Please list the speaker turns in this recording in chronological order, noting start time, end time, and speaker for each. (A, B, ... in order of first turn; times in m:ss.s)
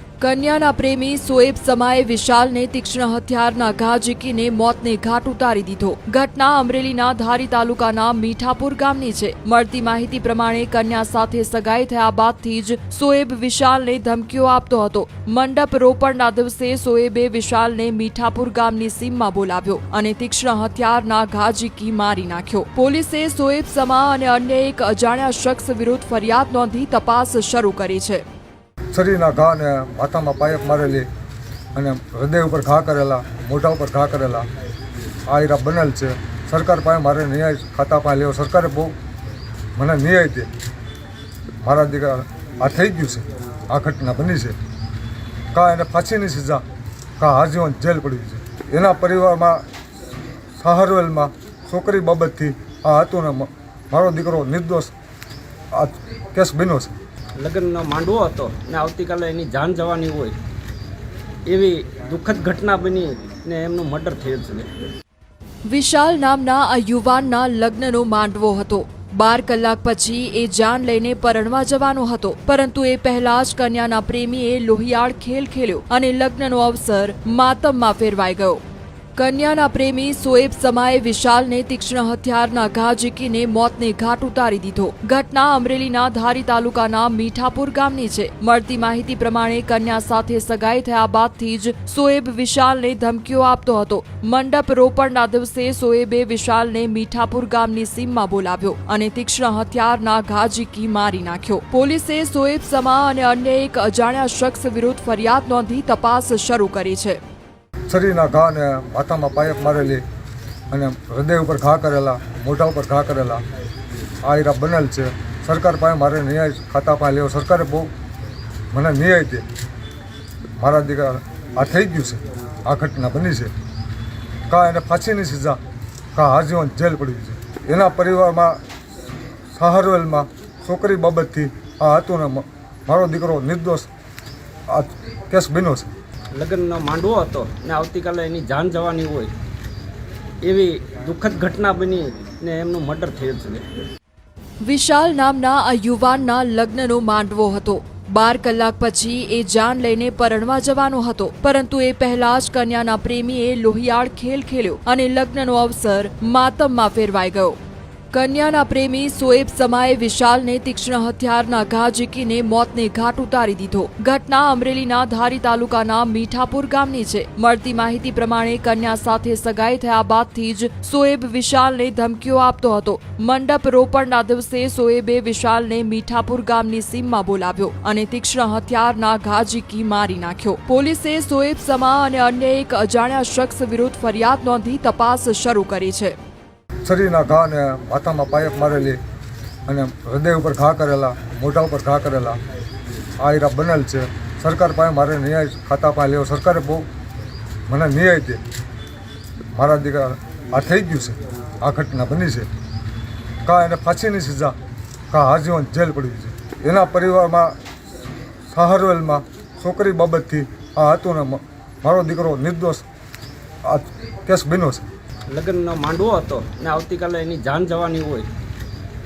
0:00.2-0:28.2 A
0:28.9-0:31.1 B
0:31.8-0:34.5 B
0:35.3-0:39.0 B
0:39.8-0:40.5 B
0:41.6-0:44.6 B
0:45.5-0:46.6 B
0:47.2-0:49.6 B
0:50.6-0:54.9 B
0:55.7-0:56.9 B
0:57.4-1:00.4 C
1:01.5-1:04.7 C
1:05.7-1:18.6 A
1:19.2-1:47.2 A
1:47.9-1:50.0 B
1:50.7-1:53.4 B
1:54.2-1:57.9 B
1:58.7-1:59.4 B
2:00.6-2:03.5 B
2:04.5-2:05.6 B
2:06.2-2:08.6 B
2:09.5-2:13.9 B
2:14.7-2:15.9 B
2:16.4-2:19.3 C
2:20.4-2:23.6 C
2:24.6-2:37.6 A
2:38.1-3:06.2 A
3:06.8-3:09.0 B
3:09.7-3:12.4 B
3:13.2-3:16.9 B
3:17.7-3:18.4 B
3:19.5-3:22.5 B
3:23.4-3:24.6 B
3:25.1-3:27.6 B
3:28.5-3:32.9 B
3:33.6-3:34.9 B
3:35.3-3:38.3 C